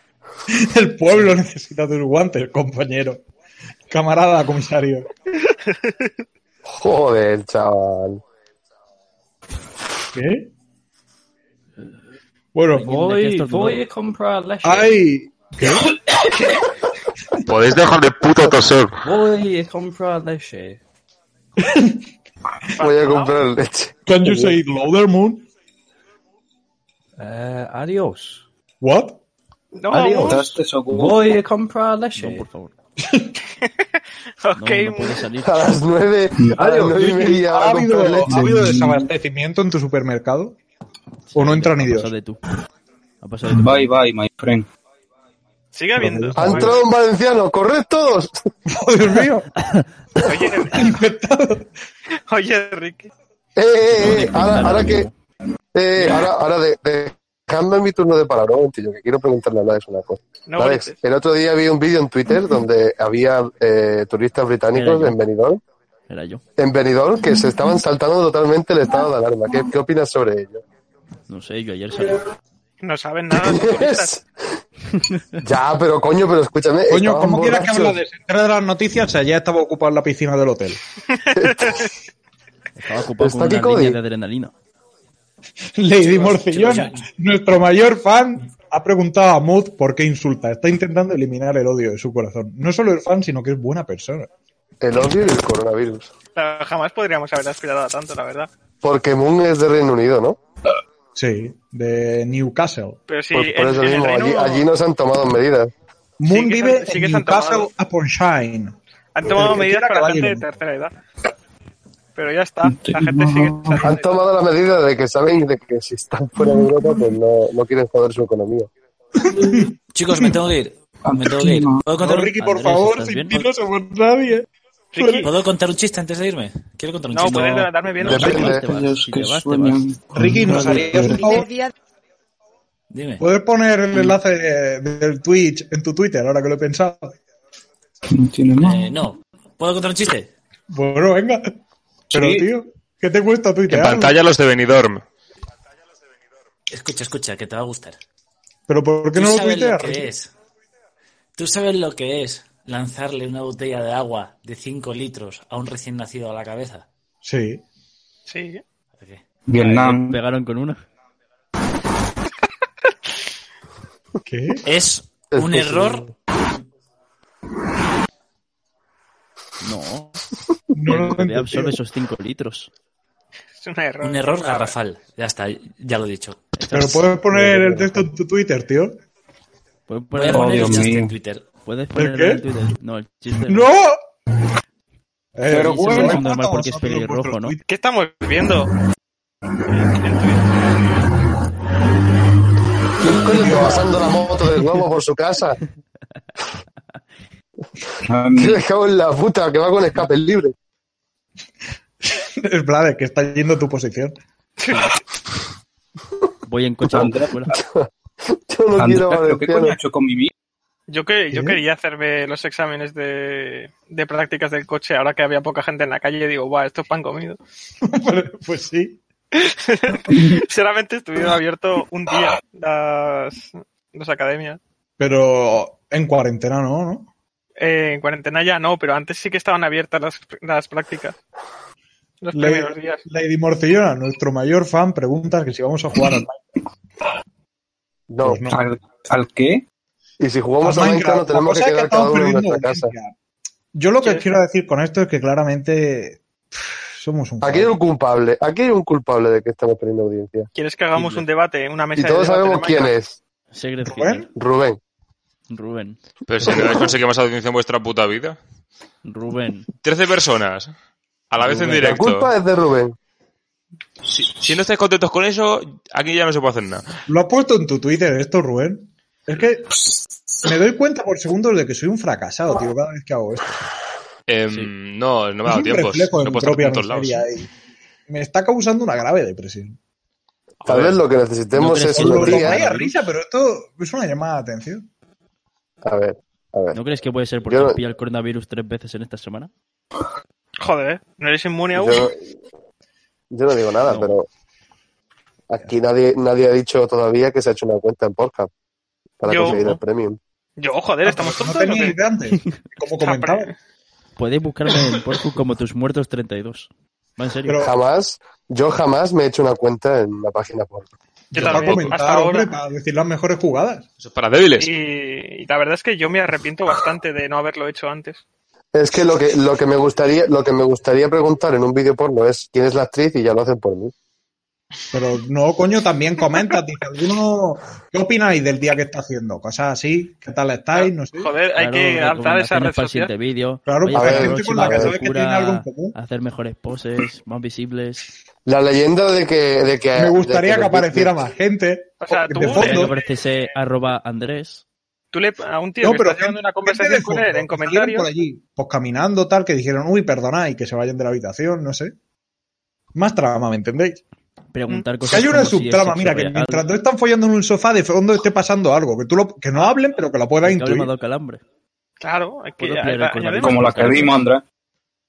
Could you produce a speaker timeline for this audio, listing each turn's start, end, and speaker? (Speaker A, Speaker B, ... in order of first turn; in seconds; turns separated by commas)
Speaker A: 0.5-3.2, Speaker A: 3.9-5.1, Speaker B: 5.5-6.1, Speaker C: 6.7-8.2, Speaker A: 10.1-10.5, Speaker A: 12.5-12.9, Speaker D: 12.7-13.8, Speaker E: 12.8-15.0, Speaker A: 14.6-15.9, Speaker F: 17.4-19.0, Speaker E: 19.0-20.8, Speaker A: 21.6-22.0, Speaker B: 22.8-23.4, Speaker C: 22.8-24.5, Speaker A: 24.1-25.4, Speaker E: 27.2-28.4, Speaker A: 28.8-29.2, Speaker B: 29.7-30.5, Speaker E: 29.9-32.4, Speaker G: 30.1-31.2, Speaker D: 32.1-32.7, Speaker A: 33.0-33.3, Speaker B: 34.4-35.2, Speaker D: 34.5-35.7, Speaker C: 35.4-38.5, Speaker G: 36.4-36.7, Speaker E: 36.6-37.4, Speaker A: 37.3-40.5, Speaker G: 38.3-39.0, Speaker D: 41.3-42.4, Speaker A: 41.3-42.1, Speaker D: 43.2-44.0, Speaker G: 43.5-44.7, Speaker B: 45.7-46.8, Speaker A: 46.0-46.8, Speaker C: 46.4-48.4, Speaker A: 48.7-49.5, Speaker D: 49.6-49.9, Speaker B: 50.2-50.9, Speaker A: 50.7-51.7, Speaker B: 52.3-53.1, Speaker C: 53.5-55.1, Speaker D: 53.9-55.1, Speaker C: 55.7-65.6, Speaker B: 60.5-61.0, Speaker D: 64.7-65.2, Speaker D: 66.1-66.4, Speaker C: 66.6-70.6, Speaker D: 71.3-72.2, Speaker B: 72.8-74.1, Speaker C: 73.3-74.6, Speaker C: 75.4-78.0, Speaker A: 76.9-80.8, Speaker C: 81.3-81.8, Speaker B: 81.4-81.9, Speaker D: 82.8-84.5, Speaker C: 83.2-84.0, Speaker A: 85.8-94.3, Speaker H: 86.0-87.1, Speaker C: 94.8-96.1, Speaker B: 96.3-98.5, Speaker C: 98.8-100.4, Speaker A: 101.2-103.0, Speaker B: 103.1-104.7, Speaker C: 103.3-105.7, Speaker A: 106.2-110.4, Speaker B: 106.3-107.7, Speaker B: 109.1-110.9, Speaker B: 112.2-114.2, Speaker G: 112.6-113.9, Speaker C: 113.8-118.7, Speaker G: 116.4-116.7, Speaker A: 119.2-119.7, Speaker H: 119.9-122.3, Speaker G: 121.0-121.8, Speaker A: 121.9-125.3, Speaker D: 122.3-123.5, Speaker B: 124.9-125.3, Speaker H: 125.2-127.7, Speaker B: 127.1-128.5, Speaker D: 128.0-129.9, Speaker C: 128.0-128.7, Speaker G: 128.0-131.4, Speaker A: 130.2-131.5, Speaker H: 132.9-133.2, Speaker A: 133.2-137.1, Speaker G: 138.1-138.9, Speaker H: 138.6-140.3, Speaker A: 140.7-141.4, Speaker A: 142.1-144.1, Speaker G: 142.1-142.5, Speaker F: 143.7-145.0, Speaker H: 146.7-148.0, Speaker A: 148.7-150.1, Speaker H: 149.1-150.3, Speaker H: 151.3-156.9, Speaker A: 157.2-157.6, Speaker B: 158.3-158.6, Speaker H: 158.9-159.9, Speaker G: 159.4-160.2, Speaker D: 159.7-160.8, Speaker A: 164.2-164.6, Speaker H: 164.6-166.1, Speaker C: 165.3-166.1, Speaker D: 169.6-170.2, Speaker A: 170.7-171.8, Speaker D: 170.8-172.7, Speaker B: 173.6-174.7, Speaker H: 174.0-176.9, Speaker A: 176.7-179.0, Speaker D: 176.7-177.8, Speaker D: 179.9-180.9, Speaker H: 180.1-181.5, Speaker G: 180.3-181.1, Speaker D: 181.6-183.7, Speaker A: 181.9-182.5, Speaker A: 183.5-184.0, Speaker A: 185.3-187.6, Speaker G: 185.5-186.2, Speaker D: 185.5-187.6, Speaker B: 187.6-188.7, Speaker B: 189.7-190.6, Speaker C: 193.0-195.6, Speaker A: 193.3-193.9, Speaker G: 198.0-198.6, Speaker C: 198.3-200.5, Speaker A: 202.0-204.2, Speaker B: 204.6-205.0, Speaker D: 206.4-207.5, Speaker G: 206.9-207.3, Speaker C: 207.5-209.8, Speaker G: 208.8-210.3, Speaker B: 210.9-217.4, Speaker A: 211.3-211.6, Speaker A: 217.8-219.0, Speaker B: 219.3-224.6, Speaker A: 225.0-227.1, Speaker B: 227.6-231.2, Speaker B: 232.2-233.0, Speaker A: 232.3-236.4, Speaker C: 238.1-238.4, Speaker A: 238.2-238.6, Speaker G: 238.5-239.6, Speaker C: 240.2-242.9, Speaker A: 240.6-243.1, Speaker A: 243.7-247.7, Speaker B: 244.0-244.3, Speaker C: 247.4-250.5, Speaker B: 250.5-252.9, Speaker D: 250.9-251.2, Speaker C: 251.9-253.2, Speaker D: 253.5-254.3, Speaker A: 253.8-254.3, Speaker C: 254.3-254.8, Speaker D: 255.5-256.0, Speaker F: 256.3-258.4, Speaker C: 256.4-256.9, Speaker D: 259.0-259.7, Speaker F: 259.8-260.7, Speaker F: 261.3-262.3, Speaker C: 261.4-262.9, Speaker F: 264.1-266.8, Speaker A: 267.1-269.8, Speaker A: 270.4-273.6, Speaker F: 274.3-277.3, Speaker A: 275.4-277.5, Speaker A: 278.1-279.8, Speaker F: 280.6-280.9, Speaker C: 280.6-282.7, Speaker D: 281.5-283.0, Speaker A: 281.9-284.9, Speaker C: 285.8-286.8, Speaker D: 286.7-289.5, Speaker C: 287.4-287.8, Speaker B: 290.6-292.1, Speaker C: 291.7-292.3, Speaker C: 293.3-294.3, Speaker D: 293.8-294.1, Speaker C: 295.5-298.5, Speaker C: 299.2-300.2, Speaker B: 299.2-299.7, Speaker D: 299.3-299.8, Speaker B: 300.6-302.0, Speaker A: 301.0-303.5, Speaker D: 302.4-302.6, Speaker B: 302.8-303.5, Speaker D: 304.2-307.6, Speaker A: 307.4-307.7, Speaker C: 307.6-310.9, Speaker A: 311.3-313.8, Speaker B: 311.3-312.5, Speaker F: 311.3-311.9, Speaker F: 314.0-314.7, Speaker B: 314.6-318.2, Speaker C: 318.7-323.9, Speaker A: 324.9-331.3, Speaker B: 330.7-333.1, Speaker D: 331.6-338.1, Speaker A: 333.6-335.9, Speaker C: 333.9-335.0, Speaker C: 338.4-341.1, Speaker A: 339.9-342.9, Speaker B: 342.0-343.1, Speaker D: 342.4-344.6, Speaker B: 345.1-348.1, Speaker A: 345.8-351.9, Speaker A: 352.9-354.0, Speaker D: 354.5-356.7, Speaker A: 355.1-360.9, Speaker D: 360.4-361.4, Speaker B: 362.0-364.1, Speaker D: 362.6-364.3, Speaker G: 363.4-364.4